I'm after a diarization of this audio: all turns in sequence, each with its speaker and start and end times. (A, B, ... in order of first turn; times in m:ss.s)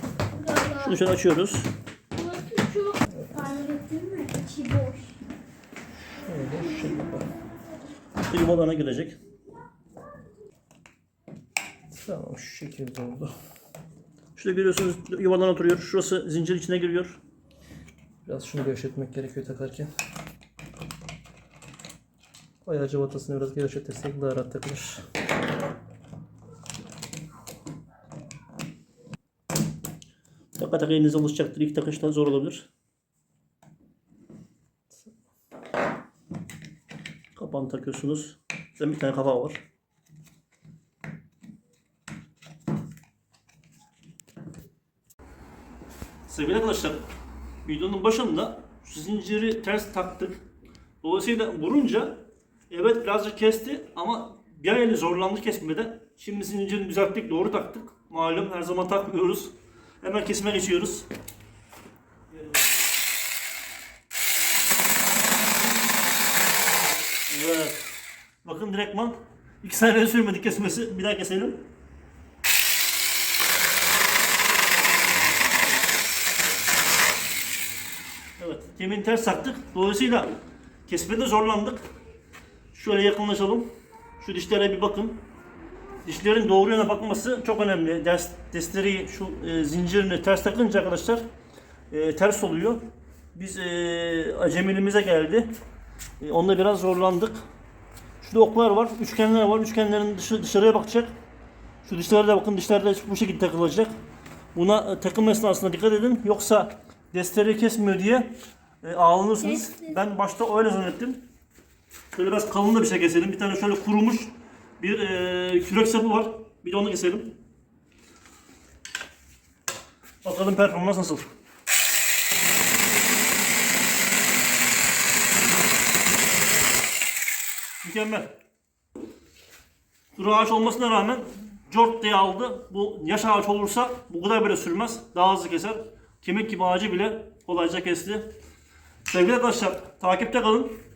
0:00.3-0:00.9 A
0:00.6-0:01.7 B
0:02.1-0:05.2 A
0:03.1-0:03.4 C
0:06.2-0:07.3 C
0:08.2-0:09.2 B
0:11.9-0:13.3 C
0:14.3-0:17.2 B
0:18.2-0:19.9 C
0:22.6-0:25.0 C
0:30.6-0:32.7 B
0:37.3-0:39.6 B
0:46.3-0:47.0 B
0:47.6-0:50.4 B
0:51.0-1:01.1 B
1:07.3-1:07.8 B
1:08.4-1:11.6 B
1:18.4-1:21.8 B
1:22.7-1:23.7 B
1:24.2-1:25.2 B
1:26.0-1:31.2 B
1:31.9-1:32.8 B
1:33.3-1:35.5 B
1:36.2-1:37.4 B
1:38.2-1:41.1 B
1:41.8-1:43.9 B
1:44.5-1:48.3 B
1:48.8-1:51.2 B
1:52.1-1:57.4 B
2:00.2-2:01.3 B
2:07.8-2:08.3 B
2:10.1-2:18.3 B
2:19.1-2:20.8 B